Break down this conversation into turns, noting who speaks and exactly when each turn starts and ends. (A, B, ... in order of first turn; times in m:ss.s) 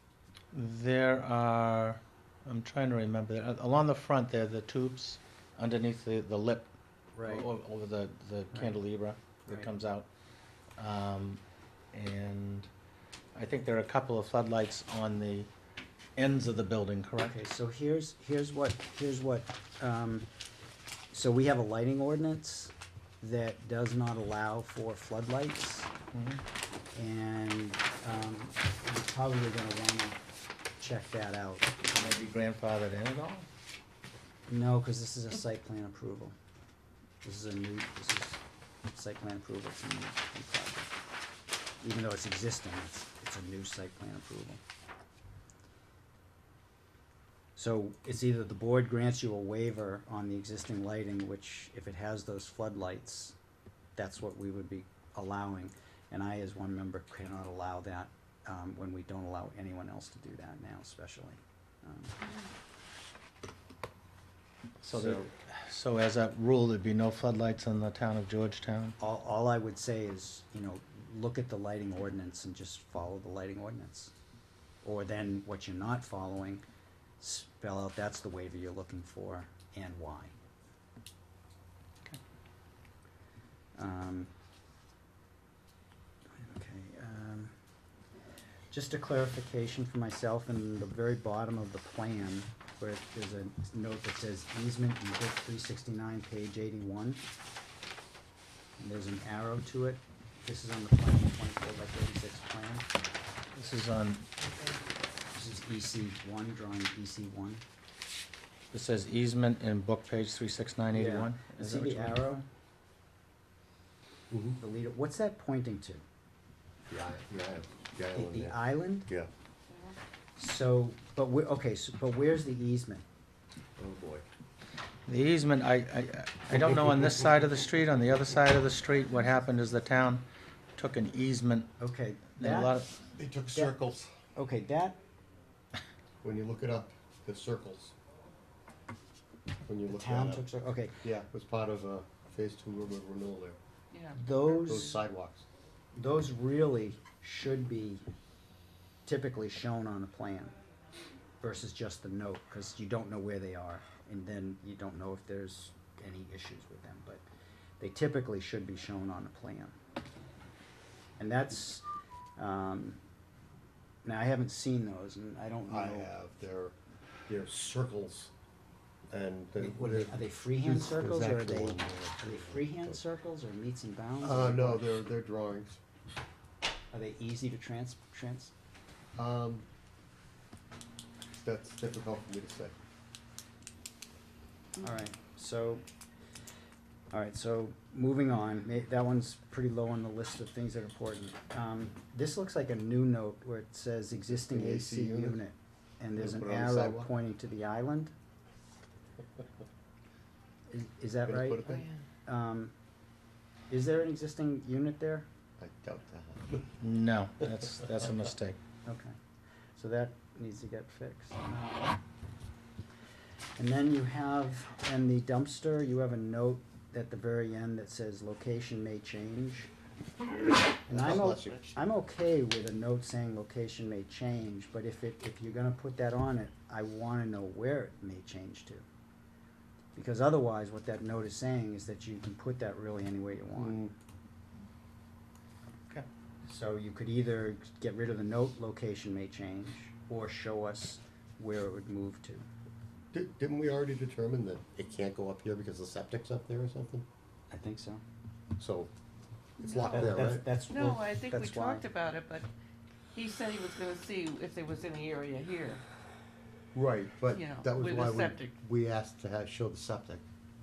0:00.5-0:06.7 A
0:07.1-0:07.5 B
0:07.2-0:10.1 A
0:10.8-0:11.4 A
0:11.9-0:12.7 A
0:13.3-0:15.5 A
0:16.2-0:17.4 A
0:17.2-0:20.3 B
0:21.1-0:25.9 B
0:26.1-0:26.4 A
0:26.9-0:30.2 B
0:30.8-0:31.8 B
0:31.9-0:33.5 A
0:34.5-0:36.3 B
0:37.2-0:40.9 B
0:41.8-0:44.6 B
0:47.5-0:53.3 B
0:54.0-1:02.2 B
1:04.8-1:09.0 A
1:04.9-1:05.3 B
1:09.0-1:14.1 B
1:14.8-1:16.6 B
1:17.2-1:20.4 B
1:23.8-1:24.3 B
1:26.3-1:27.5 B
1:28.7-1:37.2 B
1:38.8-1:42.9 B
1:43.6-1:44.3 A
1:45.3-1:47.6 B
1:48.7-1:52.2 A
1:50.9-1:52.4 B
1:54.3-1:54.6 C
1:54.6-1:56.0 B
1:56.9-1:59.3 C
1:58.1-1:59.1 B
1:59.7-1:59.9 D
2:00.4-2:03.0 B
2:03.8-2:04.3 C
2:05.1-2:11.7 A
2:06.5-2:07.2 C
2:11.8-2:12.8 B
2:12.4-2:13.0 A
2:13.1-2:14.1 C
2:14.4-2:15.0 B
2:16.2-2:17.9 C
2:19.6-2:20.4 C
2:19.9-2:21.0 B
2:21.0-2:23.6 C
2:23.9-2:24.2 D
2:24.2-2:25.0 B
2:24.5-2:25.4 C
2:25.9-2:28.0 B
2:29.0-2:30.5 B
2:31.4-2:37.2 B
2:37.8-2:39.8 B
2:41.2-2:41.8 B
2:42.4-2:43.0 B
2:44.0-2:46.1 B
2:45.7-2:46.7 C
2:47.3-2:48.3 C
2:49.1-2:53.0 C
2:49.6-2:55.0 B
2:54.2-2:55.8 C
2:56.9-2:58.5 B
2:59.2-2:59.6 C
3:01.3-3:02.7 C
3:04.8-3:05.8 B
3:07.1-3:18.1 B
3:14.3-3:15.4 C
3:16.2-3:17.1 C
3:20.7-3:22.7 B
3:21.2-3:21.9 C
3:23.7-3:25.3 B
3:25.6-3:26.7 C
3:26.8-3:28.6 A
3:28.8-3:29.2 B
3:29.8-3:31.9 B
3:33.6-3:39.7 B
3:40.9-3:48.8 B
3:40.9-3:41.8 C
3:49.9-3:53.8 B
3:53.6-3:53.9 C
3:56.4-4:02.5 B
4:03.1-4:07.0 C
4:07.5-4:08.0 B
4:08.6-4:08.9 C
4:09.6-4:10.5 C
4:09.9-4:11.9 B
4:10.7-4:12.5 D
4:13.1-4:15.8 D
4:16.7-4:20.2 C
4:17.3-4:18.5 D